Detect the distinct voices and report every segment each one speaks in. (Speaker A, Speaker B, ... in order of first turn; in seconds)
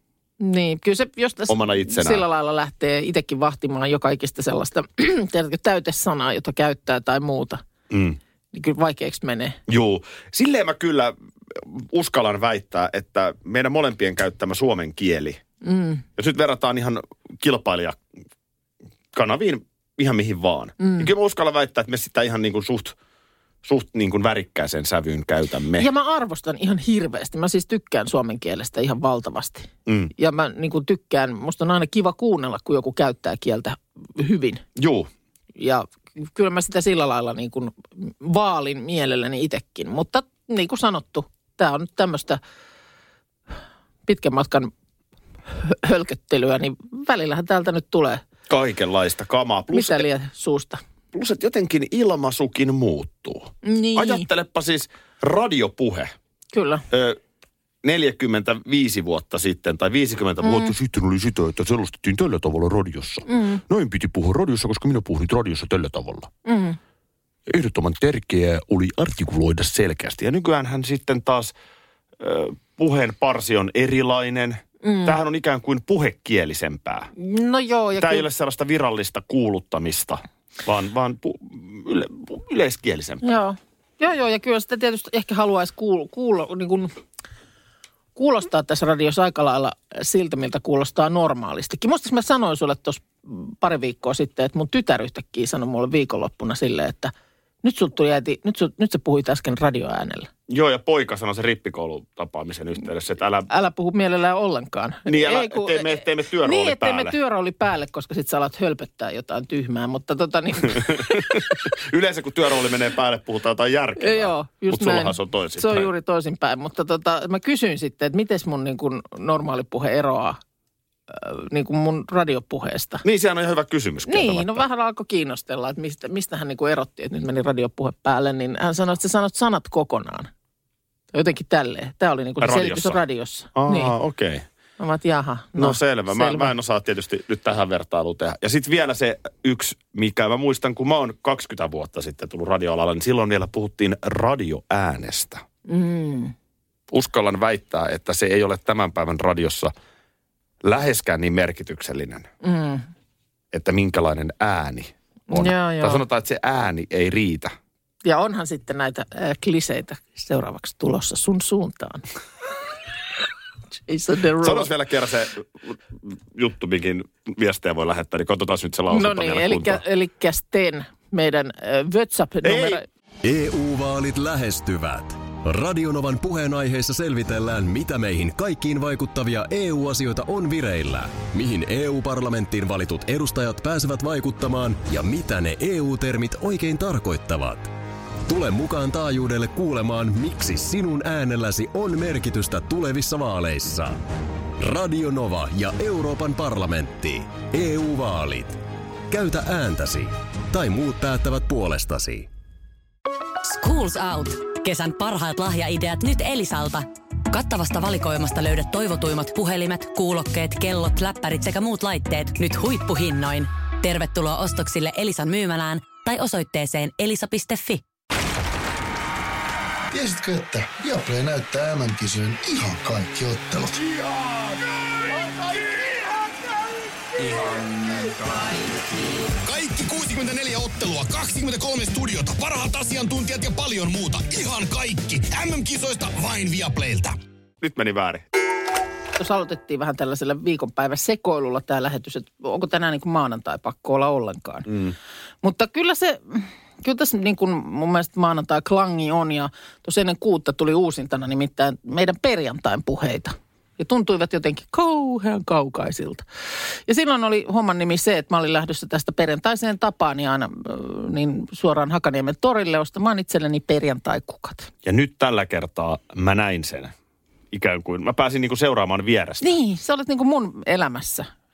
Speaker A: 0.4-7.6, 8.5-9.6, 15.6-16.0, 20.8-21.1, 25.8-34.6, 35.6-42.4, 44.1-44.7, 45.5-48.2, 49.7-50.8, 53.6-54.3, 56.5-56.8, 60.4-60.7, 63.3-63.6, 66.5-66.8, 74.8-75.2, 77.2-78.3, 83.2-86.9, 88.2-100.3, 103.5-111.6, 114.0-120.4, 121.1-123.0, 124.1-130.3, 131.1-133.9, 134.8-136.5, 145.7-146.3, 152.4-152.9, 155.3-156.0, 158.0-162.0, 163.9-164.7, 168.9-172.8, 239.2-244.8, 245.4-256.2, 256.9-264.7, 269.4-271.3
Speaker B: 1.5-2.2, 7.9-8.2, 9.7-15.4, 16.2-18.0, 19.1-22.9, 23.6-25.9, 29.9-30.1, 34.8-35.1, 48.5-50.1, 51.1-56.1, 56.9-57.2, 57.8-66.3, 67.5-71.5, 72.2-77.1, 77.9-83.2, 100.5-103.5, 105.1-107.2, 110.8-115.9, 123.0-124.7, 132.4-133.0, 133.5-134.4, 135.6-145.4, 146.9-149.7, 150.6-152.3, 153.5-157.5, 164.4-169.8, 172.4-172.8, 237.6-238.3, 244.7-244.9, 264.8-266.9, 267.5-269.4
Speaker C: 173.2-187.7, 188.3-194.0, 194.6-198.6, 199.1-202.3
Speaker D: 203.4-217.8
Speaker E: 219.9-223.9
Speaker F: 229.3-237.2